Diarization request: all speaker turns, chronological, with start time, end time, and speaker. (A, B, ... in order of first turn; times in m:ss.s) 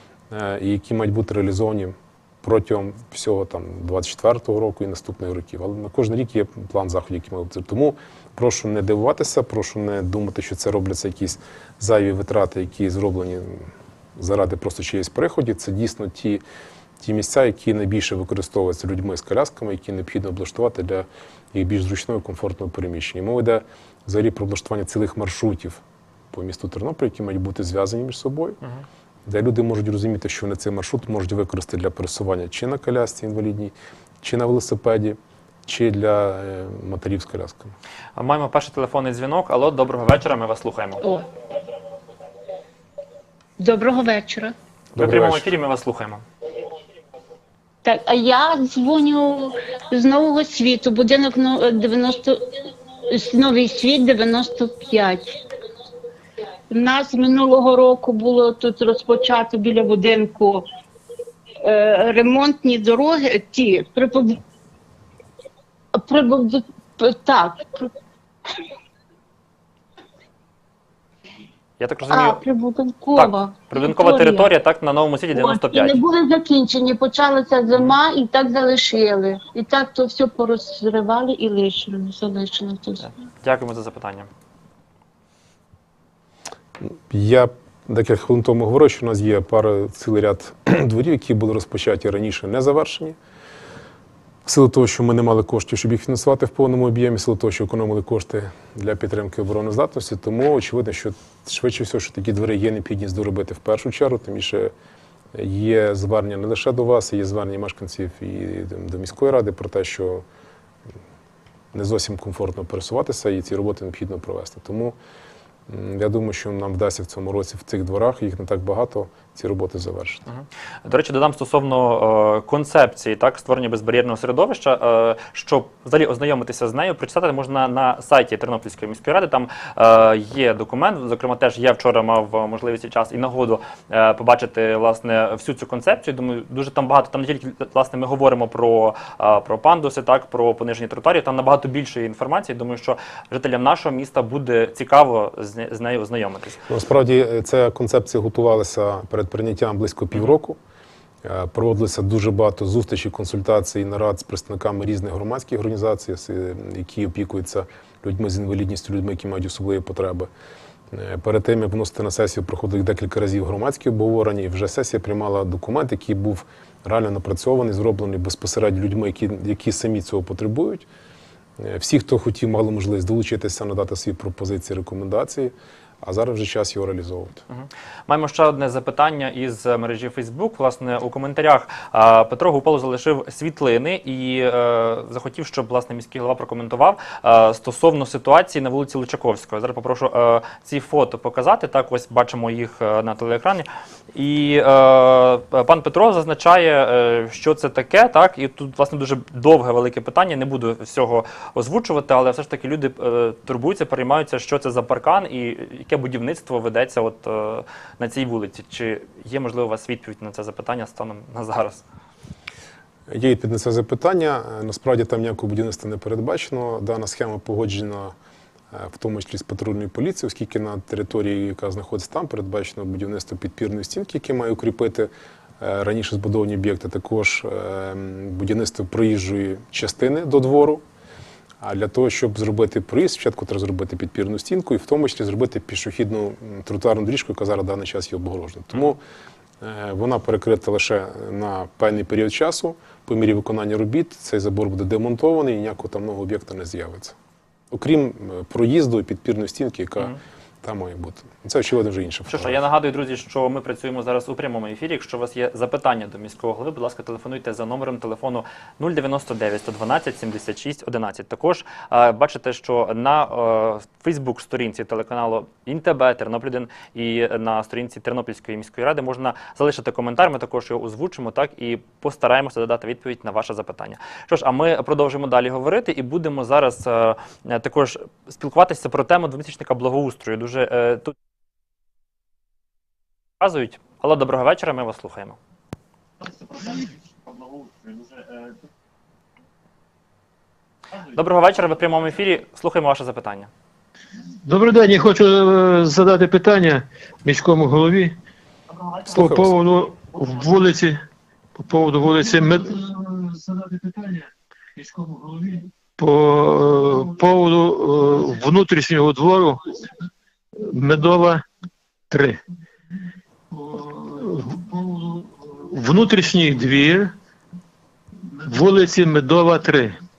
0:00.3-0:16.4 A
0:17.0-0:28.6 A
0:29.3-0:37.7 A
0:38.2-0:41.0 B
0:43.6-0:44.6 C
0:45.0-0:46.2 B
0:45.0-0:45.5 A
0:47.8-0:52.6 C
0:53.1-0:55.3 C
0:56.7-1:00.7 C
1:01.6-1:04.4 C
1:06.0-1:07.9 C
1:11.8-1:12.4 B
1:12.1-1:14.5 C
1:13.2-1:16.0 B
1:15.3-1:23.0 C
1:23.0-1:24.3 B
1:27.0-1:33.2 A
1:34.4-1:44.7 A
1:45.3-1:50.2 A
1:51.7-1:55.0 A
1:55.7-2:00.2 A
2:00.3-2:26.6 B
2:26.7-2:30.6 A
2:31.2-2:40.3 A
2:40.9-2:50.9 A
2:51.6-2:57.4 A
2:57.5-3:31.8 B
3:33.1-3:38.2 A
3:38.7-3:50.8 A
3:51.6-3:59.0 A
3:59.6-4:07.2 A
4:07.7-4:12.6 A
4:12.3-4:41.1 B
4:43.4-4:45.4 B
4:51.1-4:53.5 B
4:54.4-4:58.2 D
4:58.9-5:01.0 D
4:59.1-4:59.5 A
5:01.6-5:09.7 D
5:10.6-5:11.4 D
5:12.1-5:12.4 D
5:13.5-5:17.1 D
5:18.3-5:20.0 D